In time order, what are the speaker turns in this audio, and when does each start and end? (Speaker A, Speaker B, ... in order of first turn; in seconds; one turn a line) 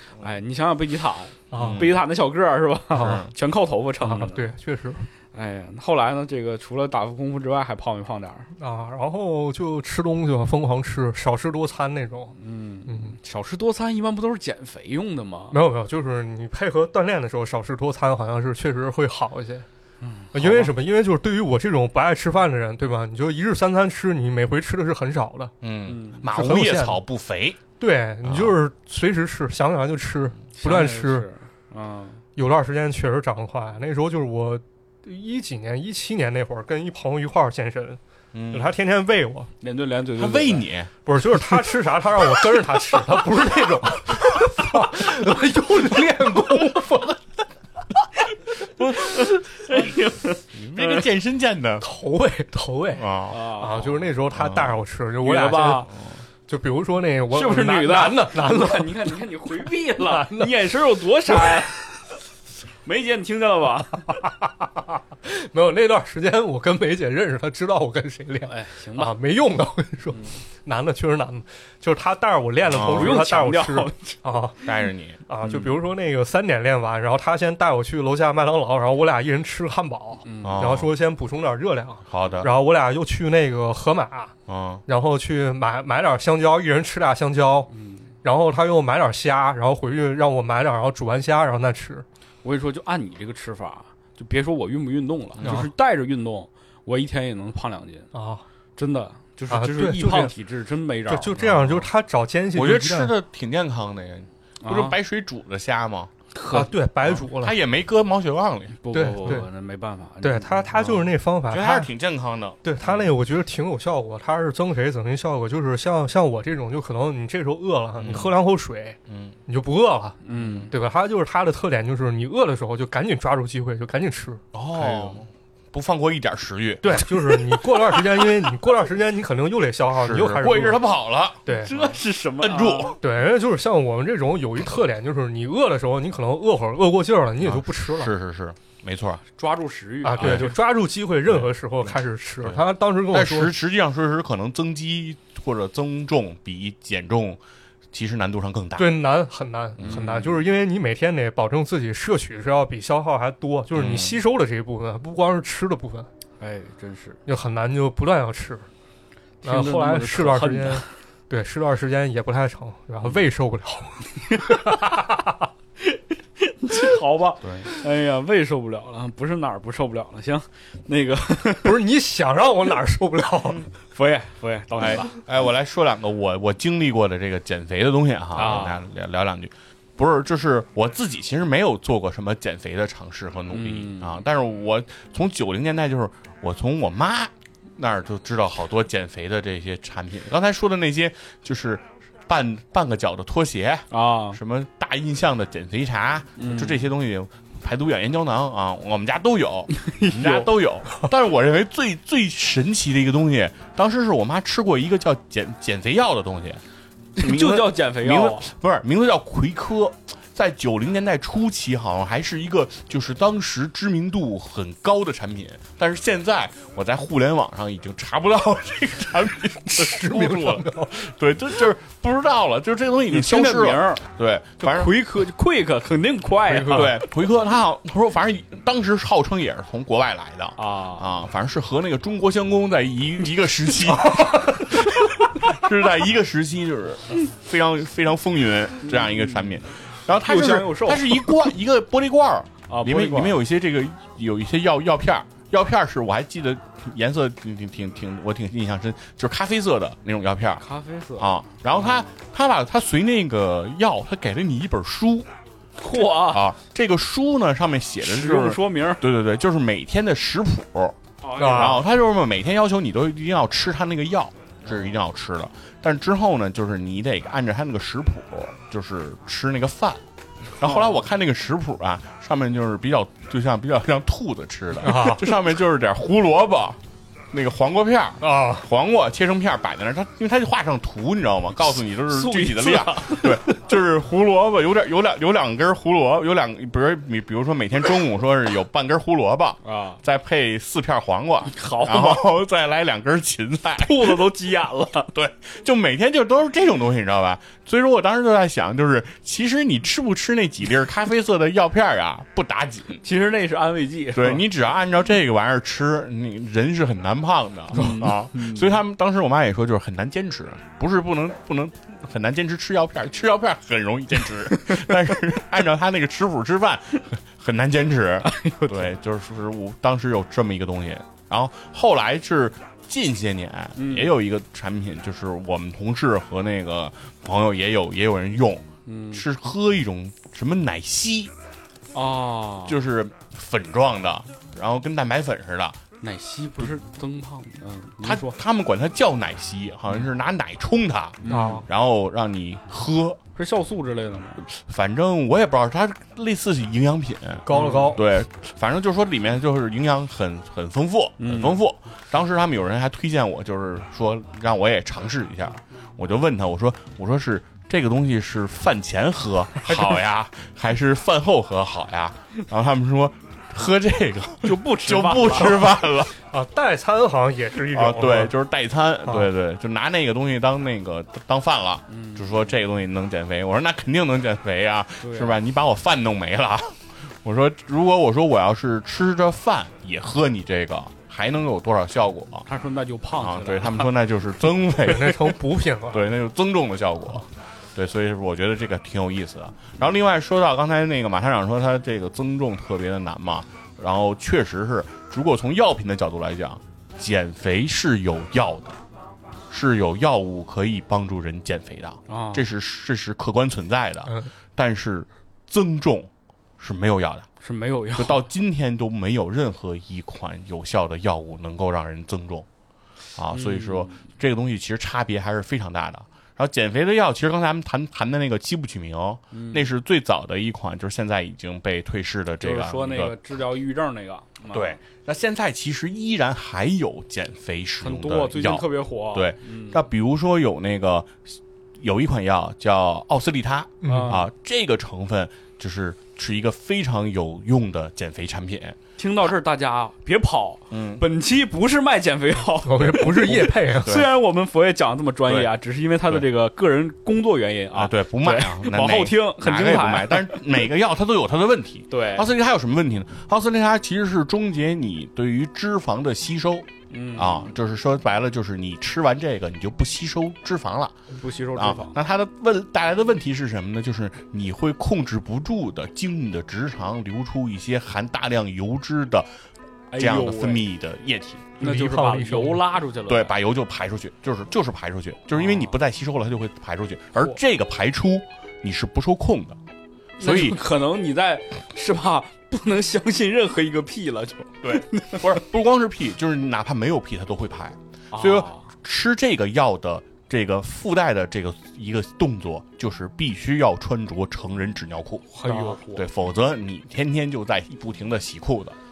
Speaker A: 0.2-4.5
Speaker B: 1.5-1.9
Speaker C: 1.6-2.0
Speaker B: 3.0-3.2
Speaker C: 3.0-3.3
Speaker B: 4.0-5.1
Speaker A: 5.3-8.5
Speaker B: 8.6-12.3
Speaker A: 12.3-15.6
Speaker B: 12.9-13.2
Speaker B: 15.5-19.7
Speaker A: 20.0-20.6
Speaker B: 20.3-25.5
Speaker C: 25.6-27.6
Speaker A: 25.9-26.2
Speaker B: 26.2-27.0
Speaker B: 27.8-31.3
Speaker C: 28.2-28.6
Speaker A: 30.6-32.2
Speaker B: 32.4-39.5
Speaker C: 38.3-38.7
Speaker A: 39.6-40.7
Speaker C: 40.2-40.9
Speaker B: 41.1-47.2
Speaker A: 48.9-51.0
Speaker C: 50.5-51.9
Speaker B: 51.8-53.1
Speaker C: 53.0-54.8
Speaker A: 53.3-53.9
Speaker B: 53.6-55.9
Speaker A: 55.2-55.9
Speaker B: 56.5-59.2
Speaker A: 57.3-61.9
Speaker B: 60.0-60.7
Speaker B: 61.3-61.6
Speaker A: 62.8-64.2
Speaker B: 64.2-64.7
Speaker B: 65.2-74.6
Speaker A: 68.5-69.2
Speaker C: 72.7-73.2
Speaker A: 72.7-74.2
Speaker C: 74.7-75.7
Speaker B: 75.3-84.3
Speaker A: 80.2-80.6
Speaker C: 80.4-80.9
Speaker C: 82.1-82.5
Speaker C: 84.5-84.8
Speaker B: 84.9-87.7
Speaker A: 87.7-88.1
Speaker B: 88.2-92.0
Speaker A: 92.4-98.1
Speaker C: 95.4-95.7
Speaker B: 95.4-95.7
Speaker B: 98.1-98.4
Speaker A: 98.8-101.4
Speaker B: 99.5-100.3
Speaker B: 101.1-103.1
Speaker C: 101.4-101.9
Speaker C: 102.5-106.1
Speaker A: 104.6-105.0
Speaker A: 106.3-106.7
Speaker B: 106.5-107.6
Speaker C: 107.0-108.8
Speaker A: 108.8-111.0
Speaker B: 108.9-109.5
Speaker B: 110.2-111.9
Speaker C: 111.5-113.1
Speaker B: 112.6-125.2
Speaker C: 118.0-118.3
Speaker C: 119.1-119.3
Speaker A: 120.2-120.7
Speaker C: 124.5-127.4
Speaker B: 126.8-130.8
Speaker C: 129.9-131.9
Speaker B: 131.5-131.7
Speaker A: 131.5-133.0
Speaker C: 132.4-133.0
Speaker B: 133.0-138.1
Speaker C: 137.4-139.2
Speaker A: 139.4-140.6
Speaker B: 140.0-143.5
Speaker C: 140.2-140.5
Speaker C: 141.3-147.4
Speaker C: 147.9-148.9
Speaker B: 148.8-156.1
Speaker C: 149.8-150.1
Speaker A: 149.8-150.4
Speaker C: 153.8-154.2
Speaker A: 156.4-157.2
Speaker B: 157.3-158.7
Speaker A: 159.4-160.9
Speaker B: 159.4-165.4
Speaker A: 165.8-171.8
Speaker B: 171.6-173.7
Speaker A: 173.9-175.2
Speaker C: 174.8-206.6
Speaker A: 178.3-178.8
Speaker A: 183.5-184.2
Speaker A: 193.9-194.4
Speaker A: 196.4-196.9
Speaker A: 199.8-200.5
Speaker A: 207.2-208.5
Speaker C: 207.2-225.0
Speaker B: 219.6-221.0
Speaker A: 223.1-224.1
Speaker A: 224.6-227.0
Speaker B: 226.5-226.9
Speaker C: 226.7-250.6
Speaker A: 230.6-231.1
Speaker B: 234.0-234.7
Speaker A: 238.8-239.6
Speaker A: 240.2-241.4
Speaker A: 242.7-243.4
Speaker A: 250.6-252.0
Speaker C: 251.2-255.3
Speaker A: 255.8-256.5
Speaker C: 256.2-270.0
Speaker A: 258.0-259.0
Speaker A: 261.2-261.8
Speaker B: 261.4-261.8
Speaker C: 270.6-276.8
Speaker A: 270.6-271.0
Speaker B: 274.8-275.3
Speaker C: 277.3-294.3
Speaker B: 278.2-278.7
Speaker A: 282.1-283.4
Speaker A: 289.6-290.0
Speaker A: 291.5-292.3
Speaker A: 293.8-295.1
Speaker C: 295.1-303.0
Speaker A: 303.0-304.5
Speaker C: 304.1-331.3
Speaker A: 307.7-308.8
Speaker A: 314.6-314.9
Speaker A: 318.2-318.9
Speaker A: 323.8-324.1
Speaker A: 328.9-329.3
Speaker A: 331.9-332.8
Speaker C: 332.7-335.8
Speaker A: 336.0-338.4
Speaker C: 338.0-343.2
Speaker A: 341.2-341.6
Speaker B: 341.3-341.6
Speaker A: 343.4-344.4
Speaker C: 344.4-366.2
Speaker B: 347.5-348.0
Speaker A: 347.5-347.9
Speaker A: 351.2-351.6
Speaker A: 364.4-365.8
Speaker B: 366.3-368.3
Speaker C: 367.7-382.5
Speaker A: 371.9-372.5
Speaker A: 375.0-375.4
Speaker A: 382.5-383.9
Speaker C: 383.2-398.8
Speaker B: 384.8-386.1
Speaker C: 399.5-407.3
Speaker A: 402.1-402.5
Speaker A: 407.4-408.2
Speaker C: 408.0-412.5
Speaker C: 413.1-423.2
Speaker A: 413.3-414.1
Speaker A: 419.3-419.7
Speaker A: 422.4-424.8
Speaker C: 424.5-438.8
Speaker A: 427.8-429.8
Speaker B: 433.8-434.2
Speaker A: 433.8-434.3
Speaker A: 439.0-450.5
Speaker C: 440.7-441.0
Speaker B: 442.6-444.1
Speaker C: 443.8-444.1
Speaker C: 447.7-461.0
Speaker A: 451.9-452.3
Speaker A: 456.9-457.5
Speaker A: 461.1-462.0
Speaker C: 461.6-469.3
Speaker A: 469.9-470.7
Speaker C: 470.0-471.5
Speaker A: 471.6-473.4
Speaker B: 471.6-472.7
Speaker C: 473.1-479.6
Speaker A: 475.3-475.8
Speaker A: 480.2-485.3
Speaker C: 480.2-480.6
Speaker C: 484.6-498.8
Speaker A: 488.1-488.7
Speaker A: 495.3-496.1